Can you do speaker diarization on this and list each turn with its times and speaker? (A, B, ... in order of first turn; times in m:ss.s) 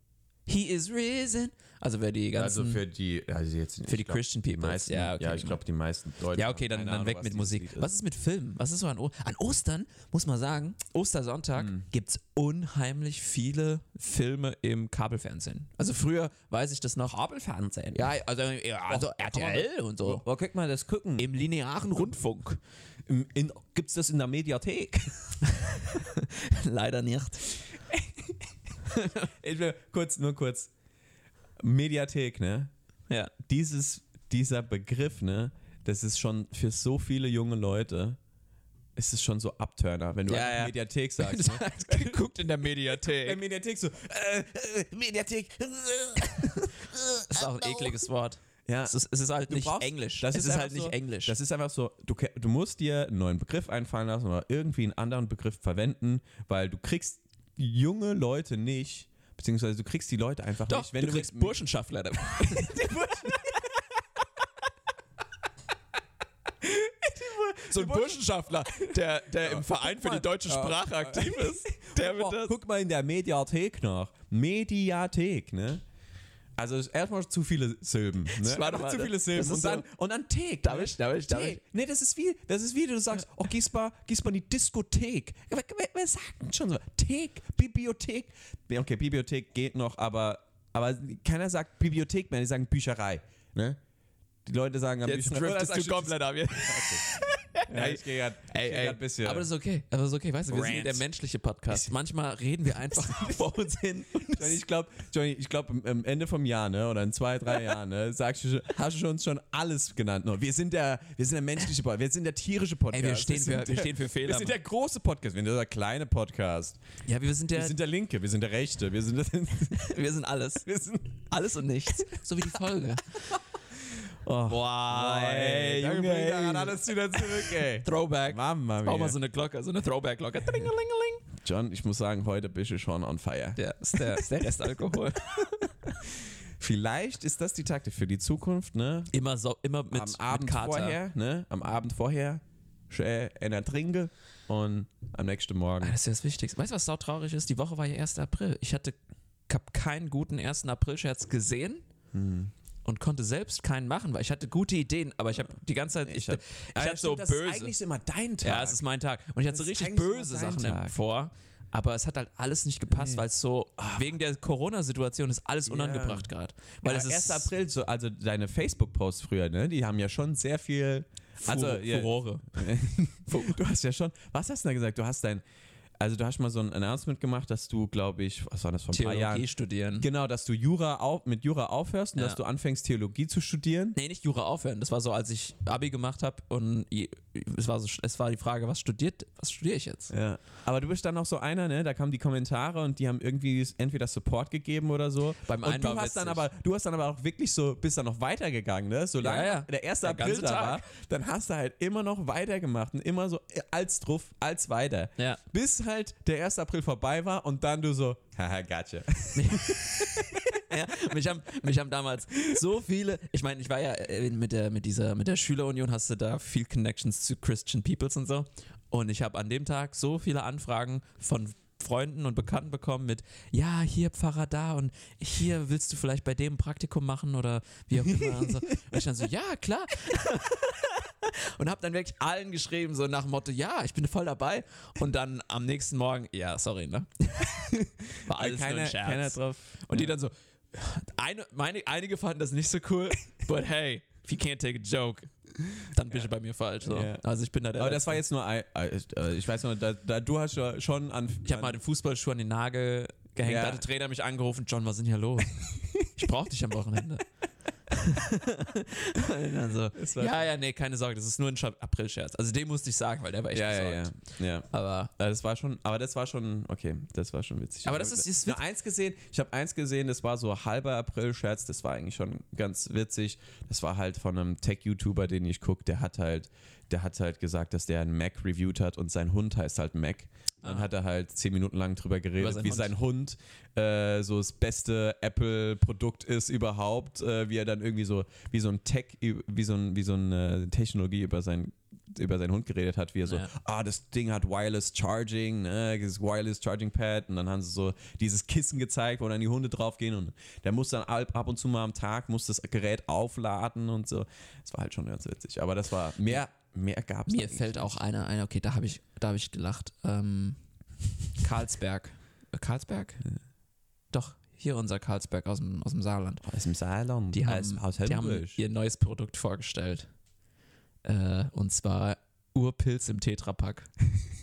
0:00.5-0:02.8 A
0:02.3-0:07.9 B
0:03.8-0:05.6 A
0:06.3-0:20.2 A
0:11.5-0:11.8 B
0:17.6-0:18.0 B
0:18.9-0:21.3 B
0:21.2-0:22.6 A
0:23.1-0:25.3 B
0:25.4-0:27.6 A
0:27.9-0:28.3 B
0:28.8-0:30.7 B
0:31.6-0:32.7 B
0:33.4-0:38.2 B
0:39.0-0:42.3 B
0:40.3-0:43.4 A
0:42.9-0:48.0 B
0:47.3-0:51.4 A
0:48.7-1:01.6 B
1:00.7-1:03.3 A
1:02.4-1:03.9 B
1:06.6-1:15.8 B
1:07.6-1:12.5 A
1:16.6-1:33.8 B
1:18.3-1:19.9 A
1:20.6-1:21.6 A
1:34.4-1:37.0 B
1:35.0-1:44.6 A
1:37.7-1:39.5 B
1:40.5-1:41.0 B
1:42.8-1:43.6 B
1:44.4-1:56.8 B
1:52.9-1:54.6 A
1:57.0-1:57.8 A
1:57.5-2:00.0 B
1:59.7-2:00.7 A
2:00.6-2:01.2 B
2:01.2-2:03.4 A
2:04.2-2:09.2 B
2:04.4-2:11.2 A
2:11.4-2:19.1 B
2:13.6-2:15.7 A
2:19.1-2:21.0 A
2:19.9-2:26.0 B
2:25.8-2:29.0 A
2:29.5-2:31.8 A
2:32.1-2:32.5 B
2:32.8-2:37.7 A
2:36.0-2:38.8 B
2:38.4-2:47.5 A
2:39.5-2:41.0 B
2:42.9-2:43.2 B
2:43.8-2:44.1 B
2:45.7-2:46.3 B
2:46.8-2:55.4 B
2:51.4-2:53.6 A
2:56.0-2:59.5 B
2:58.9-3:00.1 A
3:00.0-3:04.0 B
3:04.0-3:10.1 A
3:10.1-3:30.9 B
3:15.4-3:16.4 A
3:19.2-3:20.8 A
3:29.3-4:08.2 A
3:48.0-3:49.0 B
3:58.3-4:00.2 B
4:06.8-4:07.2 B
4:07.8-4:11.7 B
4:11.4-4:17.2 A
4:13.4-4:13.8 B
4:17.9-4:24.1 A
4:19.9-4:20.5 B
4:23.5-5:08.0 B
4:24.7-4:25.1 A
4:27.8-4:28.6 A
4:42.4-4:42.9 A
4:53.2-4:53.5 A
5:07.3-5:10.6 A
5:11.4-5:13.2 A
5:14.1-5:16.4 A
5:16.4-5:18.6 B
5:17.3-5:20.1 A
5:21.0-5:23.9 A